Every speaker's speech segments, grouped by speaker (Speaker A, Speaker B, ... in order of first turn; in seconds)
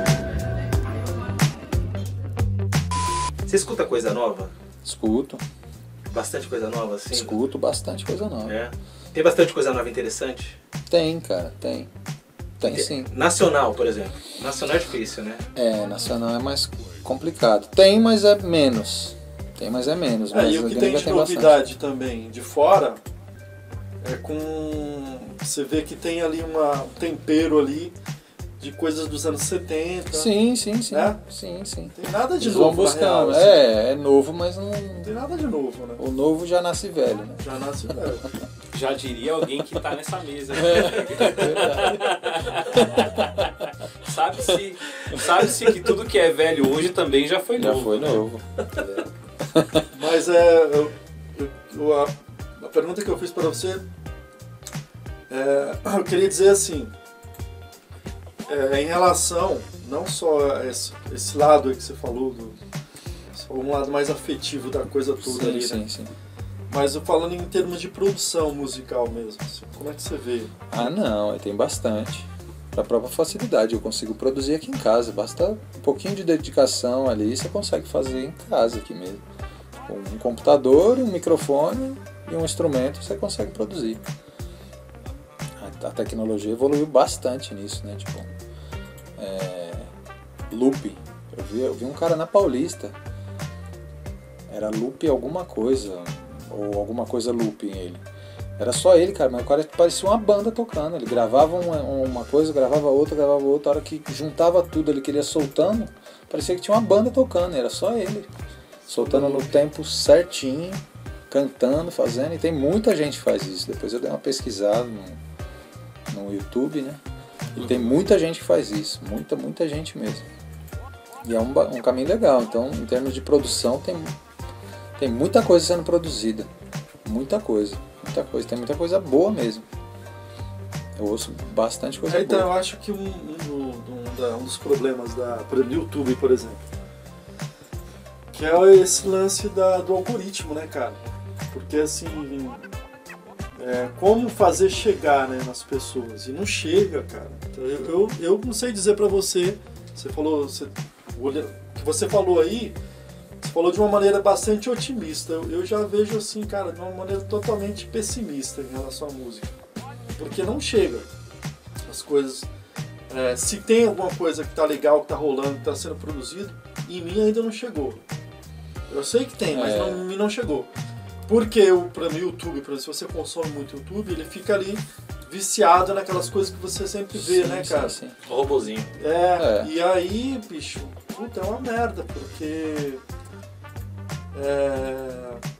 Speaker A: 3.5-4.5, 6.1-7.3, 8.4-10.6, 12.7-15.4, 178.2-178.9
Speaker B: 4.8-5.4, 7.1-8.6, 10.9-11.9, 12.6-13.1, 15.5-21.6, 30.1-35.1, 36.0-37.5, 40.6-42.1, 42.7-43.5, 47.6-48.4, 49.5-49.9, 65.2-66.1, 70.7-79.2, 79.8-84.0, 85.6-88.3, 89.2-89.9, 90.5-92.9, 94.5-98.0, 98.6-108.3, 108.9-115.2, 116.1-117.0, 117.5-120.2, 121.2-124.2, 125.0-126.5, 127.0-129.6, 130.9-132.5, 169.5-170.1, 177.1-178.2, 179.4-179.7
Speaker C: 20.3-23.0, 24.0-27.9, 28.6-30.3, 30.9-31.2, 31.9-33.6, 35.0-36.0, 37.4-38.2, 49.9-53.8, 55.3-56.9, 58.5-62.6, 63.3-65.8, 66.7-70.9, 108.9-109.6, 132.1-136.6, 138.3-141.0, 141.5-142.7, 143.6-152.8, 153.4-159.5, 160.2-161.1, 161.8-162.5, 163.1-168.0, 168.9-170.7, 171.3-177.9, 179.0-183.0, 184.3-185.4
Speaker D: 38.7-49.1